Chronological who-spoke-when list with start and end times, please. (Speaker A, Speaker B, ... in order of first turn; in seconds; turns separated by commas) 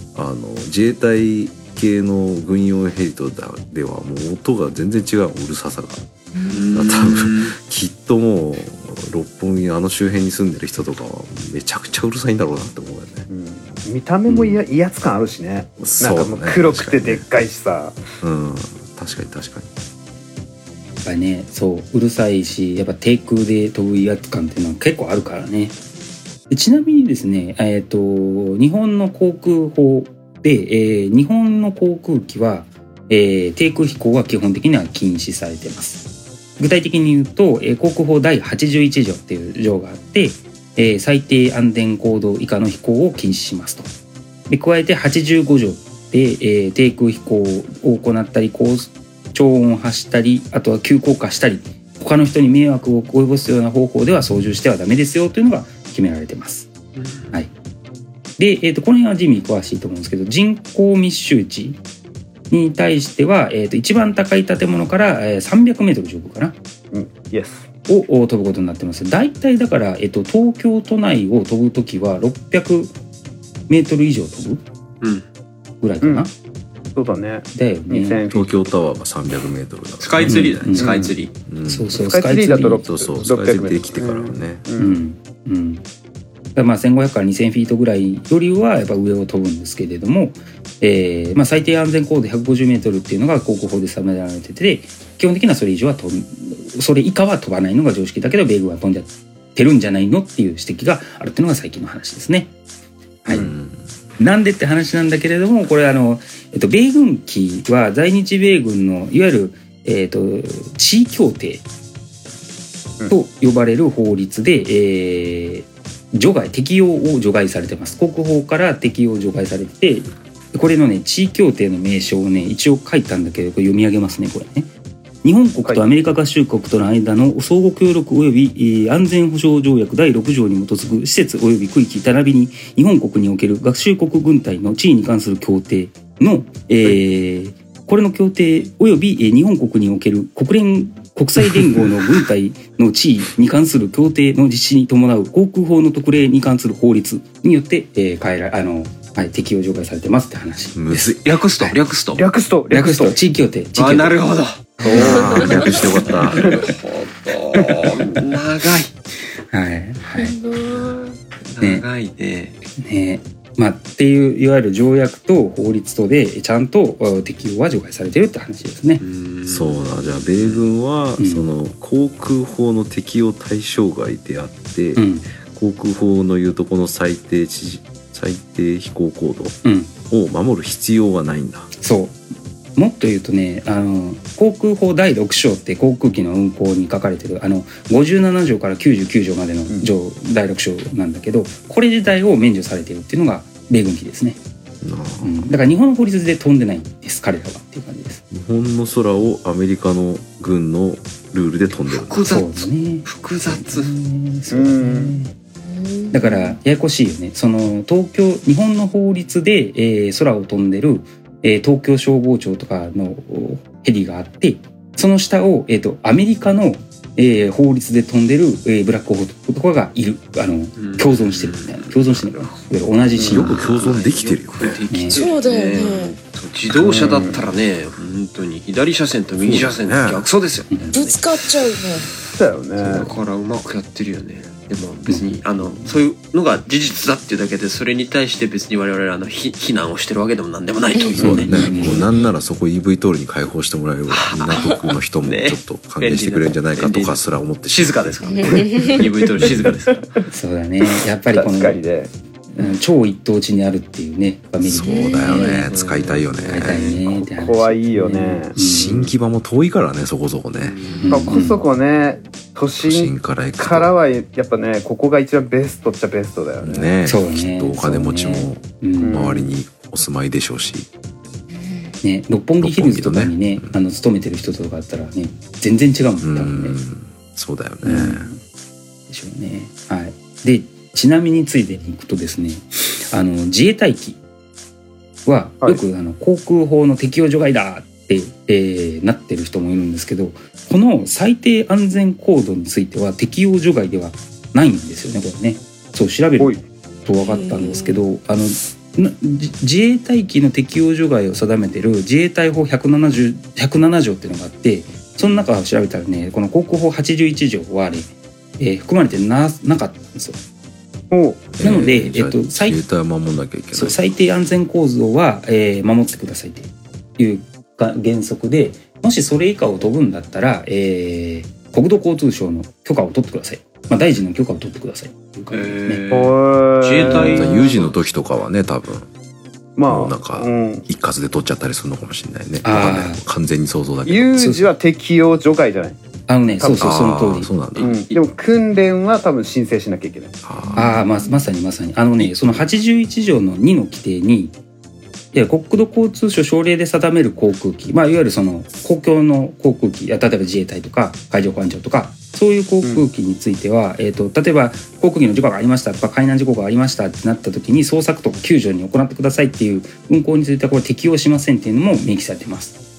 Speaker A: 0.1-6.1, Speaker B: 6.3-6.7, Speaker C: 6.5-7.5, Speaker A: 6.7-13.2, Speaker D: 13.3-18.0, Speaker A: 14.3-14.6, Speaker A: 15.8-17.2, Speaker A: 18.2-19.7, Speaker E: 21.0-25.7, Speaker E: 26.5-36.1, Speaker E: 36.6-43.9, Speaker E: 44.5-56.7, Speaker C: 57.0-57.3, Speaker E: 58.4-61.8, Speaker E: 62.5-66.5, Speaker D: 66.9-67.7, Speaker E: 67.9-72.9, Speaker E: 73.7-74.6, Speaker E: 75.8-76.3, Speaker D: 76.0-76.3, Speaker D: 76.9-78.7, Speaker E: 77.5-78.2, Speaker A: 78.3-80.9, Speaker C: 80.0-81.3, Speaker E: 80.2-81.1, Speaker D: 80.8-81.1, Speaker A: 81.5-82.0, Speaker E: 81.7-82.8, Speaker D: 81.9-85.0, Speaker A: 82.8-84.6, Speaker E: 84.8-85.8, Speaker E: 86.5-102.5, Speaker E: 103.2-103.5, Speaker A: 103.3-103.8, Speaker E: 104.2-111.6, Speaker E: 113.1-124.7, Speaker E: 125.2-151.8, Speaker A: 150.7-151.4, Speaker C: 151.2-152.2, Speaker D: 152.2-153.2, Speaker E: 152.7-154.2, Speaker C: 153.8-158.9, Speaker E: 154.8-155.3, Speaker A: 154.9-156.6, Speaker D: 154.9-155.5, Speaker D: 156.3-156.6, Speaker D: 157.8-158.2, Speaker E: 159.5-160.3, Speaker B: 160.1-161.2, Speaker C: 161.5-162.6, Speaker E: 162.8-169.0, Speaker C: 169.0-170.7, Speaker A: 169.4-179.6, Speaker E: 171.2-171.5, Speaker E: 174.9-175.3, Speaker E: 179.6-179.9, Speaker A: 180.1-181.7, Speaker E: 181.8-182.2, Speaker E: 182.8-194.4, Speaker A: 194.8-195.5, Speaker E: 195.2-198.2, Speaker A: 198.3-202.2, Speaker C: 201.8-203.9, Speaker E: 202.3-205.3, Speaker D: 204.5-205.2, Speaker B: 205.6-206.6, Speaker E: 206.1-223.6, Speaker C: 220.8-221.9, Speaker D: 223.1-223.5, Speaker A: 223.2-224.8, Speaker C: 223.3-231.2, Speaker E: 224.9-225.2, Speaker B: 225.1-226.2, Speaker D: 226.7-227.5, Speaker A: 229.4-230.3, Speaker B: 230.9-232.1, Speaker D: 232.2-233.1, Speaker C: 232.8-242.2, Speaker A: 232.9-233.1, Speaker E: 235.1-235.9, Speaker A: 241.2-249.8, Speaker E: 241.2-242.1, Speaker C: 244.1-250.1, Speaker B: 248.3-249.0, Speaker D: 249.0-249.9, Speaker E: 250.3-251.8, Speaker D: 251.3-252.1, Speaker E: 252.5-255.6, Speaker A: 254.6-257.0, Speaker B: 254.9-255.5, Speaker C: 255.3-256.9, Speaker E: 256.5-259.1, Speaker D: 256.7-259.0, Speaker A: 258.5-260.8, Speaker C: 260.6-261.3, Speaker E: 261.0-261.6, Speaker D: 261.1-266.9, Speaker A: 262.8-263.9, Speaker A: 266.6-270.9, Speaker E: 267.1-269.4, Speaker D: 269.0-269.5, Speaker B: 271.6-271.9, Speaker E: 272.0-276.8, Speaker A: 272.6-273.8, Speaker A: 276.2-278.3, Speaker E: 277.8-278.4, Speaker E: 279.1-284.2, Speaker E: 285.2-310.4, Speaker B: 297.2-298.0, Speaker D: 311.1-311.5, Speaker A: 311.6-314.0, Speaker E: 311.6-312.8, Speaker E: 313.7-326.0, Speaker C: 325.5-327.9, Speaker D: 326.1-327.7, Speaker A: 327.0-329.1, Speaker D: 329.8-330.9, Speaker A: 329.9-334.4, Speaker E: 332.6-333.2, Speaker D: 334.0-336.0, Speaker E: 334.4-334.7, Speaker E: 336.3-337.5, Speaker D: 336.6-336.9, Speaker A: 336.7-337.9, Speaker C: 337.7-338.2, Speaker D: 337.8-340.3, Speaker A: 340.4-340.9, Speaker E: 340.8-344.5, Speaker B: 340.8-341.4, Speaker E: 345.3-362.7